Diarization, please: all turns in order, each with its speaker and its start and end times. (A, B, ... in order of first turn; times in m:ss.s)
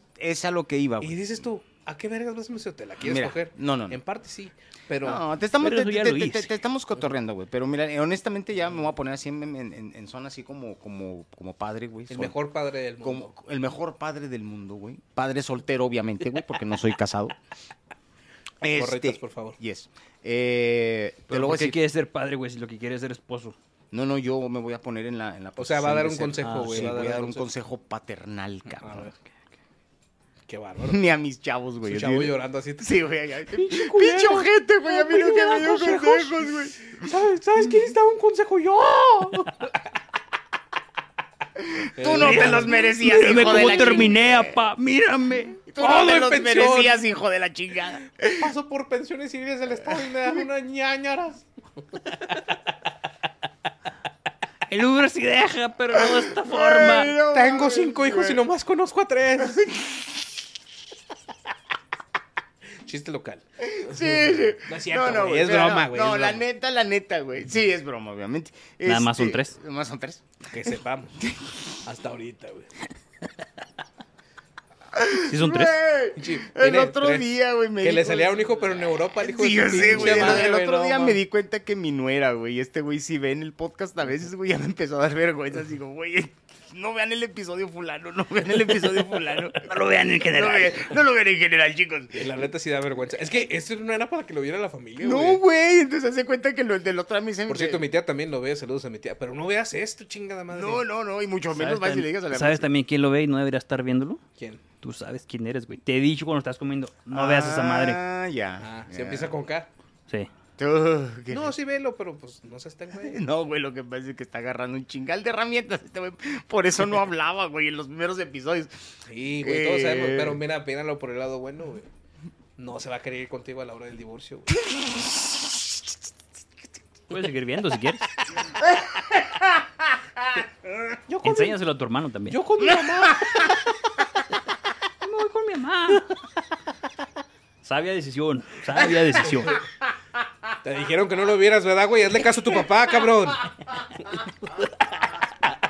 0:00.2-0:01.4 A
0:01.0-0:05.2 B
0:03.0-0:04.0 A
0:05.0-0:12.4 A
0:05.6-0:06.5 C
0:12.1-0:13.3 B
0:13.0-0:17.4 A
0:18.6-0:21.8 A
0:18.7-0:19.6 B
0:21.3-0:23.6 C
0:23.9-0:29.1 A
0:25.6-0:27.5 B
0:26.4-0:27.1 C
0:28.8-0:29.1 B
0:30.5-0:31.0 B
0:30.8-0:37.1 A
0:31.8-0:32.9 B
0:33.5-0:36.4 B
0:37.0-0:39.7 B
0:41.6-0:44.6 A
0:42.0-0:44.1 B
0:42.2-0:45.6 C
0:45.4-0:48.5 A
0:45.8-0:47.0 B
0:48.3-0:52.6 B
0:49.9-0:50.4 A
0:54.7-0:57.2 C
0:55.9-0:58.4 A
0:57.3-0:59.7 B
0:59.4-1:00.1 A
1:02.8-1:06.4 B
1:03.6-1:10.2 A
1:08.8-1:09.6 C
1:10.5-1:11.2 B
1:11.2-1:11.6 A
1:11.8-1:12.7 B
1:14.9-1:32.4 A
1:15.3-1:15.8 C
1:16.2-1:17.3 B
1:17.8-1:21.2 B
1:19.8-1:20.5 C
1:29.6-1:30.9 C
1:32.1-1:35.4 B
1:35.0-1:37.8 A
1:37.5-1:40.8 B
1:40.5-1:42.7 A
1:41.5-1:44.2 C
1:44.4-1:44.6 B
1:44.8-1:48.0 C
1:47.1-1:49.4 A
1:48.6-1:49.7 B
1:50.6-1:51.6 A
1:51.3-1:53.2 B
1:53.0-1:58.8 A
1:59.1-2:01.9 B
1:59.4-2:00.4 A
2:02.6-2:04.6 B
2:04.6-2:05.6 A
2:07.1-2:08.1 C
2:09.1-2:09.5 A
2:11.1-2:11.6 B
2:11.2-2:12.4 C
2:12.3-2:13.6 B
2:12.7-2:13.4 A
2:15.0-2:16.1 C
2:17.6-2:19.6 C
2:19.2-2:19.6 B
2:19.9-2:20.2 A
2:20.6-2:24.7 B